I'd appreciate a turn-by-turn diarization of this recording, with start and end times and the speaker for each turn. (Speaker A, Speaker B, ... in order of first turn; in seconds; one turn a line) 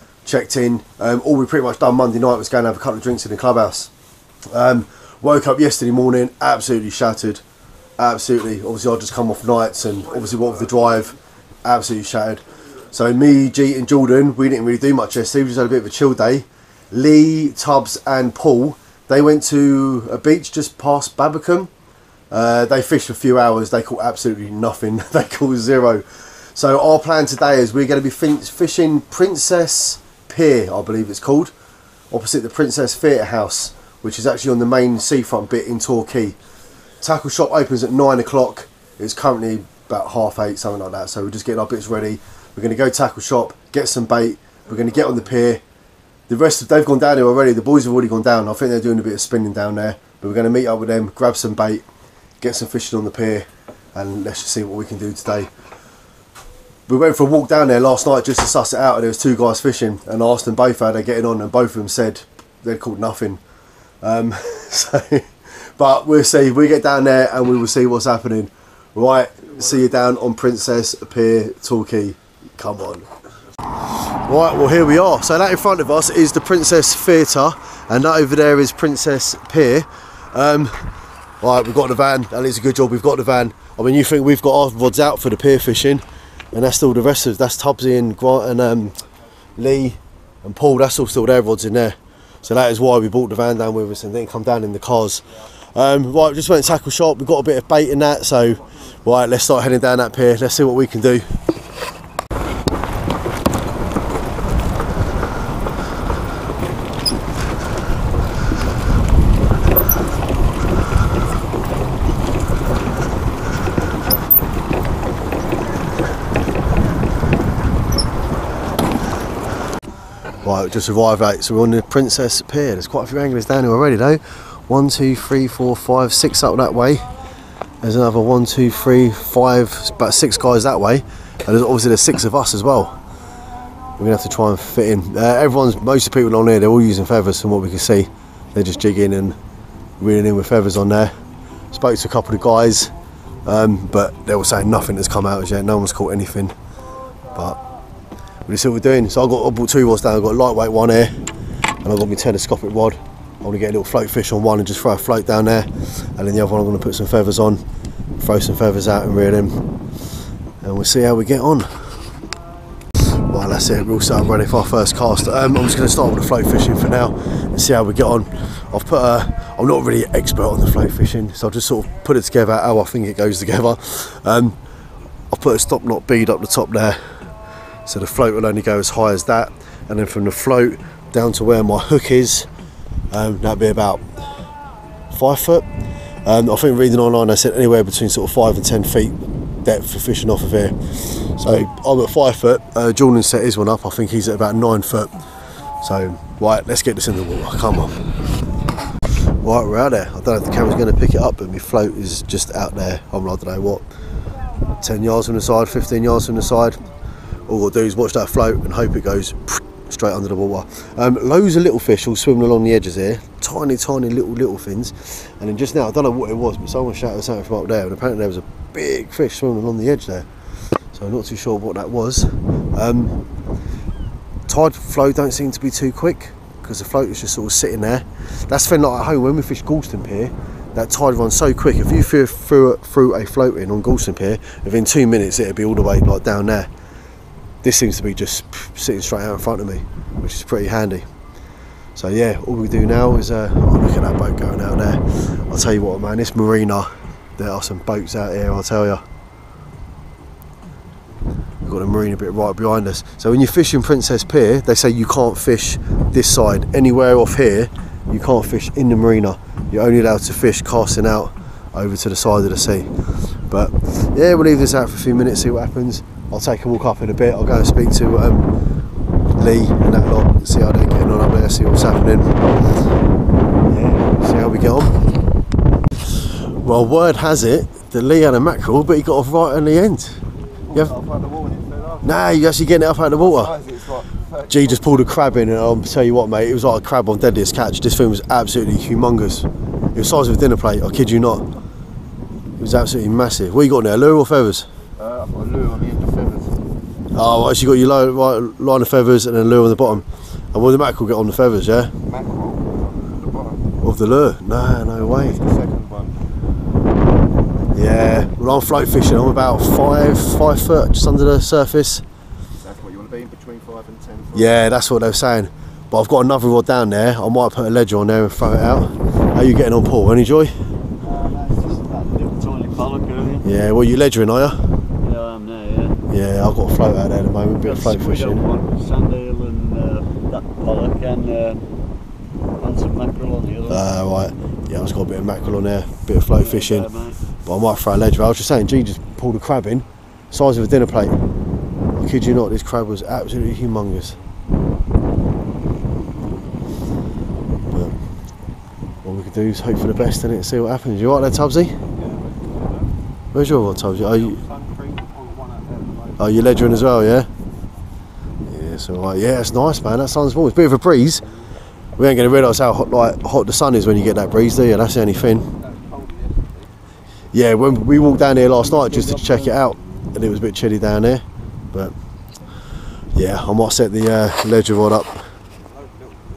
Speaker A: 0.2-3.9
Speaker A: 4.5-7.4
Speaker A: 8.0-21.7
Speaker A: 22.3-26.0
Speaker A: 26.5-31.5
Speaker A: 32.1-36.4
Speaker A: 37.0-45.6
Speaker A: 46.3-51.8
Speaker A: 52.4-55.5
Speaker A: 56.9-63.4
Speaker A: 64.0-73.1
Speaker A: 74.2-80.9
Speaker A: 81.4-89.0
Speaker A: 89.6-95.2
Speaker A: 95.7-101.2
Speaker A: 120.4-127.1
Speaker A: 127.8-132.9
Speaker A: 134.0-139.3
Speaker A: 140.0-141.1
Speaker A: 141.7-142.9
Speaker A: 143.4-146.5
Speaker A: 148.4-151.1
Speaker A: 151.8-157.6
Speaker A: 158.2-159.6
Speaker A: 160.6-161.7
Speaker A: 163.3-174.6
Speaker A: 175.3-177.0
Speaker A: 177.8-182.5
Speaker A: 183.1-184.0
Speaker A: 185.1-185.7
Speaker A: 186.2-195.1
Speaker A: 195.8-198.0
Speaker A: 199.4-203.8
Speaker A: 204.8-206.8
Speaker A: 207.5-220.3
Speaker A: 220.9-223.1
Speaker A: 224.5-236.7
Speaker A: 237.6-241.1
Speaker A: 241.9-249.0
Speaker A: 251.7-262.9
Speaker A: 263.5-268.5
Speaker A: 269.4-272.4
Speaker A: 273.7-274.9
Speaker A: 276.6-280.2
Speaker B: 280.7-282.1
Speaker A: 282.0-283.6
Speaker B: 283.2-284.9
Speaker A: 284.5-291.4
Speaker A: 292.6-294.7
Speaker B: 295.0-296.5
Speaker A: 297.1-301.9
Speaker B: 302.0-303.6
Speaker A: 303.8-305.4
Speaker B: 305.1-306.1
Speaker A: 307.7-312.0
Speaker B: 312.6-314.4
Speaker A: 314.3-320.5
Speaker C: 321.0-323.4
Speaker A: 323.4-324.6
Speaker C: 325.0-326.0
Speaker A: 326.1-328.4
Speaker C: 327.6-331.7
Speaker C: 332.6-333.9
Speaker A: 333.7-336.9
Speaker C: 336.4-337.2
Speaker A: 337.4-341.2
Speaker A: 341.9-344.2
Speaker A: 347.7-348.0
Speaker A: 349.0-351.7
Speaker B: 352.0-352.9
Speaker A: 353.3-354.4
Speaker B: 354.6-356.0
Speaker A: 356.2-357.3
Speaker A: 358.5-361.2
Speaker A: 362.0-365.5
Speaker B: 365.6-366.6
Speaker A: 367.3-371.9
Speaker A: 373.1-375.2